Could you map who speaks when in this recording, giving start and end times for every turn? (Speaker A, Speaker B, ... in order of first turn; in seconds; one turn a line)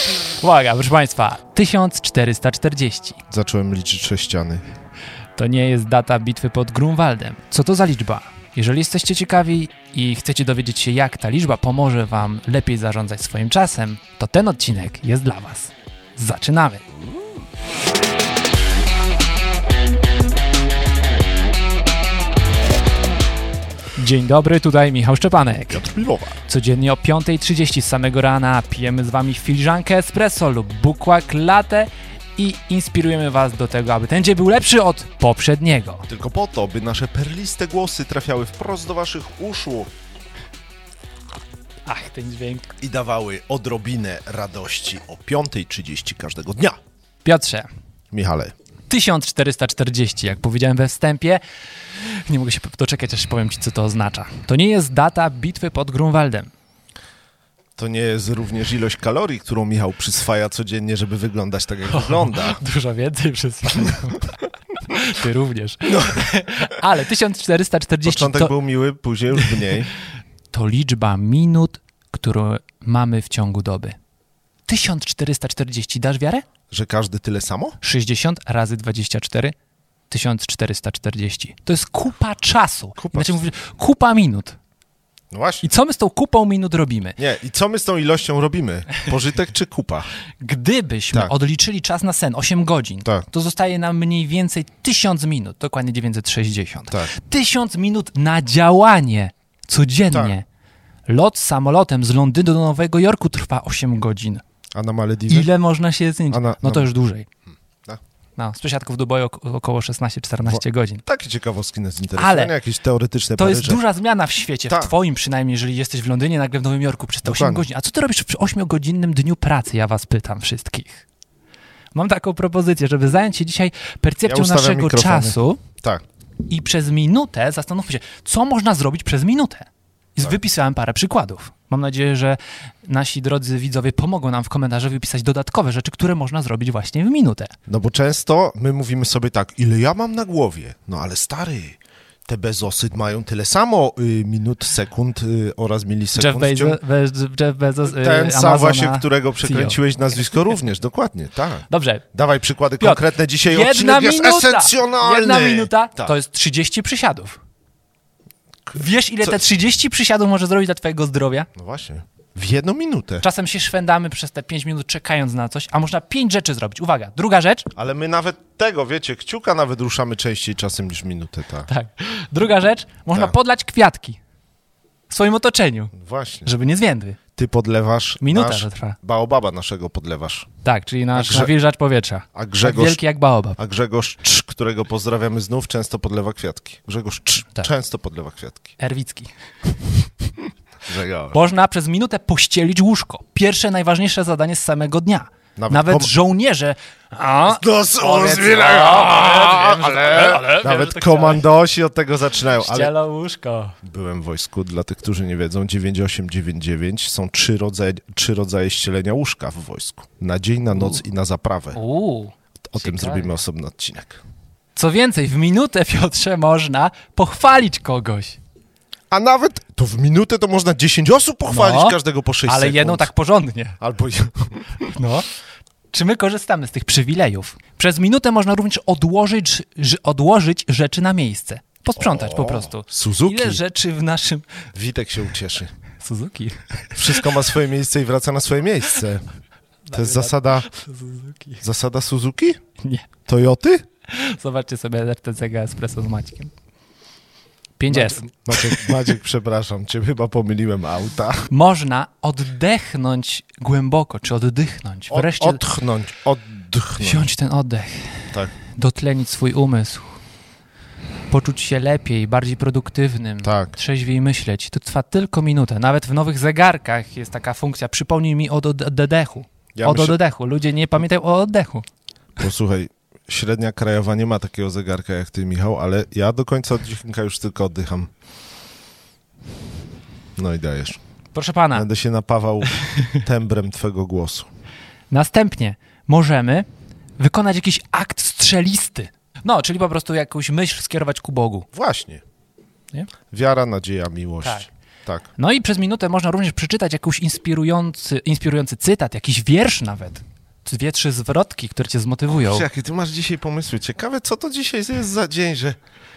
Speaker A: 0.2-3.2
Speaker B: 3.3-4.7
Speaker A: 5.4-16.8
Speaker A: 24.0-25.9
Speaker B: 25.7-26.4
Speaker A: 26.5-36.1
Speaker B: 36.1-39.9
Speaker A: 41.9-42.8
Speaker B: 42.8-46.8
Speaker A: 47.2-47.7
Speaker B: 48.1-48.5
Speaker A: 48.9-51.4
Speaker A: 51.9-56.5
Speaker B: 57.8-62.6
Speaker A: 61.9-68.5
Speaker B: 65.9-66.2
Speaker B: 68.0-69.9
Speaker A: 69.4-69.8
Speaker A: 70.5-74.0
Speaker A: 74.7-76.5
Speaker B: 76.7-77.8
Speaker A: 77.8-79.5
Speaker A: 80.1-84.6
Speaker B: 83.0-83.4
Speaker B: 85.3-85.7
Speaker A: 85.6-87.2
Speaker B: 87.2-90.1
Speaker A: 90.4-100.5
Speaker A: 101.1-104.4
Speaker B: 104.8-105.5
Speaker A: 105.3-107.3
Speaker B: 106.3-106.9
Speaker A: 108.4-111.0
Speaker B: 110.4-113.8
Speaker A: 112.2-112.5
Speaker A: 113.4-121.0
Speaker B: 114.7-114.9
Speaker B: 117.2-117.7
Speaker A: 121.9-125.6
Speaker B: 124.3-126.0
Speaker A: 126.5-137.5
Speaker B: 137.7-146.8
Speaker A: 146.1-149.8
Speaker B: 147.8-156.1
Speaker A: 151.7-152.1
Speaker A: 152.8-157.4
Speaker B: 158.7-159.4
Speaker A: 158.7-161.5
Speaker B: 161.6-163.2
Speaker A: 163.2-167.7
Speaker B: 167.8-171.7
Speaker A: 171.7-174.2
Speaker B: 173.1-173.4
Speaker A: 175.1-175.9
Speaker B: 175.9-176.6
Speaker A: 176.4-177.2
Speaker B: 177.4-180.5
Speaker A: 178.2-179.0
Speaker A: 180.6-183.6
Speaker B: 181.1-181.5
Speaker B: 182.3-183.0
Speaker B: 183.6-188.7
Speaker A: 188.8-189.3
Speaker B: 190.8-191.4
Speaker A: 191.3-201.4
Speaker B: 195.6-196.1
Speaker B: 197.5-202.9
Speaker A: 202.6-203.8
Speaker B: 203.8-211.8
Speaker A: 210.7-211.0
Speaker A: 211.8-213.4
Speaker B: 212.7-214.2
Speaker A: 214.8-218.4
Speaker B: 219.1-223.1
Speaker A: 221.5-223.8
Speaker B: 223.8-224.9
Speaker A: 224.9-225.3
Speaker A: 225.9-234.5
Speaker B: 232.0-233.6
Speaker B: 234.7-235.7
Speaker A: 236.0-237.4
Speaker B: 236.9-239.2
Speaker A: 239.9-241.6
Speaker B: 239.9-240.7
Speaker B: 241.6-242.6
Speaker A: 242.8-243.1
Speaker B: 243.3-243.8
Speaker A: 244.1-246.5
Speaker A: 247.8-249.0
Speaker B: 247.9-251.5
Speaker A: 251.5-255.6
Speaker B: 255.1-257.3
Speaker A: 257.0-260.2
Speaker A: 261.3-271.9
Speaker B: 263.4-263.8
Speaker B: 269.8-270.2
Speaker B: 272.4-278.1
Speaker B: 280.4-281.0
Speaker A: 281.3-281.9
Speaker B: 281.7-284.5
Speaker A: 282.9-283.1
Speaker A: 285.1-286.7
Speaker A: 287.2-291.7
Speaker B: 291.7-292.2
Speaker B: 293.3-295.3
Speaker A: 294.4-294.7
Speaker A: 295.4-302.7
Speaker B: 302.3-305.8